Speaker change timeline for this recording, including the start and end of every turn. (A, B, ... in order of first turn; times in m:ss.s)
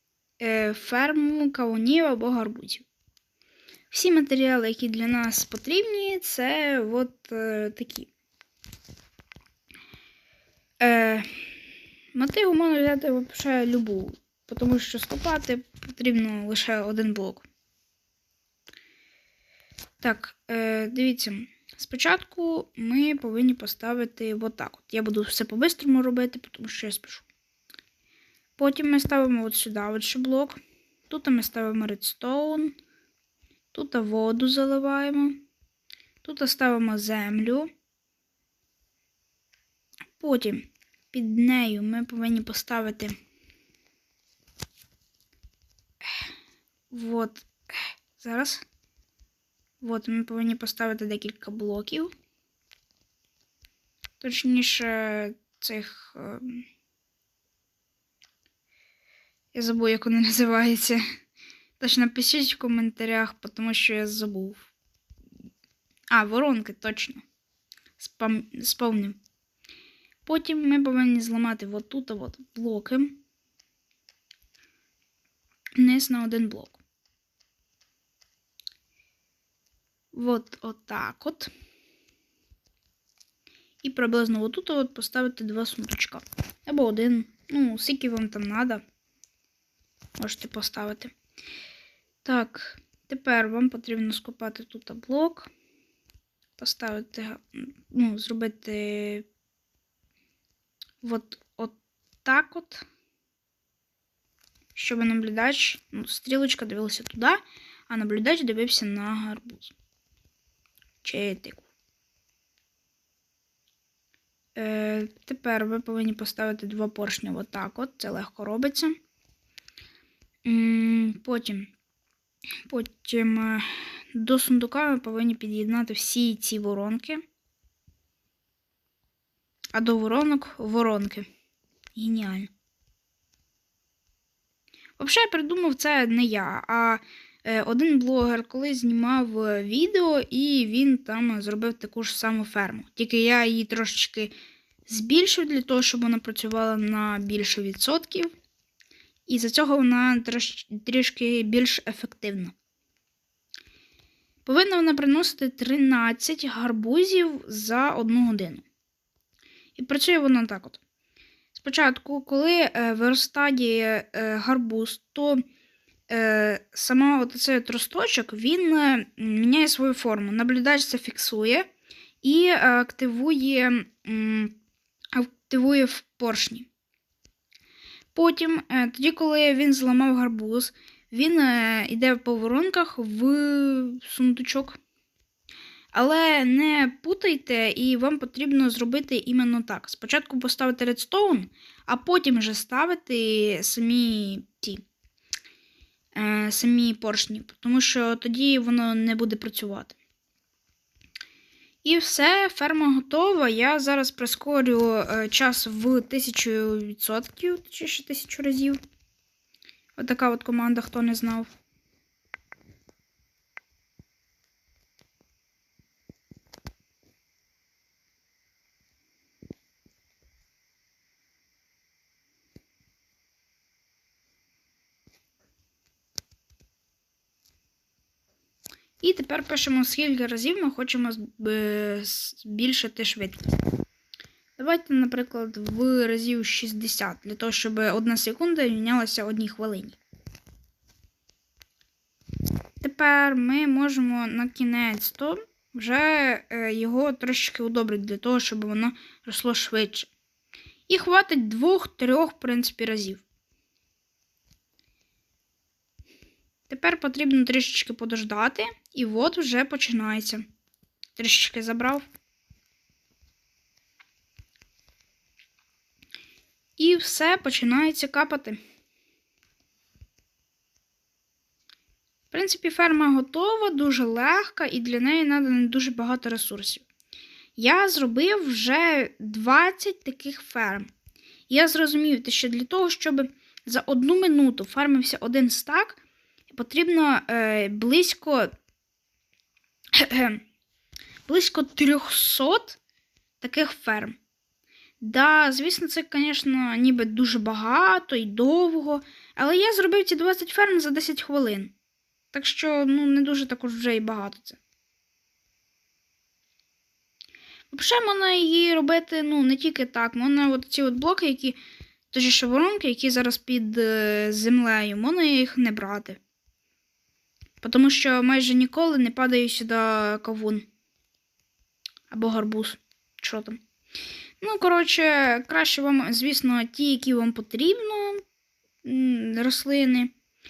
0:00.4-0:02.8 A
0:03.9-0:08.1 A
0:10.8-0:11.3 A
0:12.1-0:17.4 A
0:20.0-0:27.3 A
0:28.6-0:32.7 A
0:33.7-0:35.4 A
0:36.2-0:37.7 A
0:40.1-0:43.1 A
0:46.9-0:48.6 A
0:49.8-0:52.1 A
0:54.2-0:56.6 A
0:59.5-1:01.0 A
1:01.8-1:04.7 A
1:06.1-1:07.2 A
1:08.0-1:09.2 A
1:10.2-1:13.2 A
1:15.8-1:16.8 A
1:20.1-1:21.5 A
1:23.8-1:28.8 A
1:30.2-1:31.1 A
1:32.2-1:35.5 A
1:36.6-1:39.2 A
1:41.0-1:42.8 A
1:44.7-1:49.7 A
1:51.0-1:51.7 A
1:54.6-1:59.0 A
2:00.4-2:01.7 A
2:02.7-2:07.2 A
2:09.7-2:11.3 A
2:11.9-2:12.5 A
2:15.0-2:24.3 A
2:24.8-2:28.3 A
2:29.3-2:32.5 A
2:34.4-2:38.6 A
2:39.8-2:40.8 A
2:41.5-2:45.4 A
2:46.1-2:51.7 A
2:52.2-2:54.5 A
2:55.1-2:56.7 A
2:58.1-3:04.8 A
3:05.9-3:14.8 A
3:16.1-3:20.0 A
3:21.8-3:28.8 A
3:30.0-3:31.5 A
3:49.0-3:53.5 A
3:54.6-4:00.0 A
4:02.8-4:10.1 A
4:10.9-4:13.2 A
4:16.7-4:20.4 A
4:21.2-4:22.1 A
4:26.8-4:28.6 A
4:32.3-4:36.8 A
4:37.6-4:40.9 A
4:41.5-4:46.0 A
4:46.5-4:48.5 A
4:49.9-4:50.4 A
4:51.2-4:52.8 A
4:53.4-4:54.2 A
4:55.0-5:01.7 A
5:02.3-5:04.6 A
5:07.7-5:11.6 A
5:12.1-5:16.2 A
5:17.6-5:20.6 A
5:22.1-5:23.6 A
5:24.4-5:28.2 A
5:28.8-5:30.1 A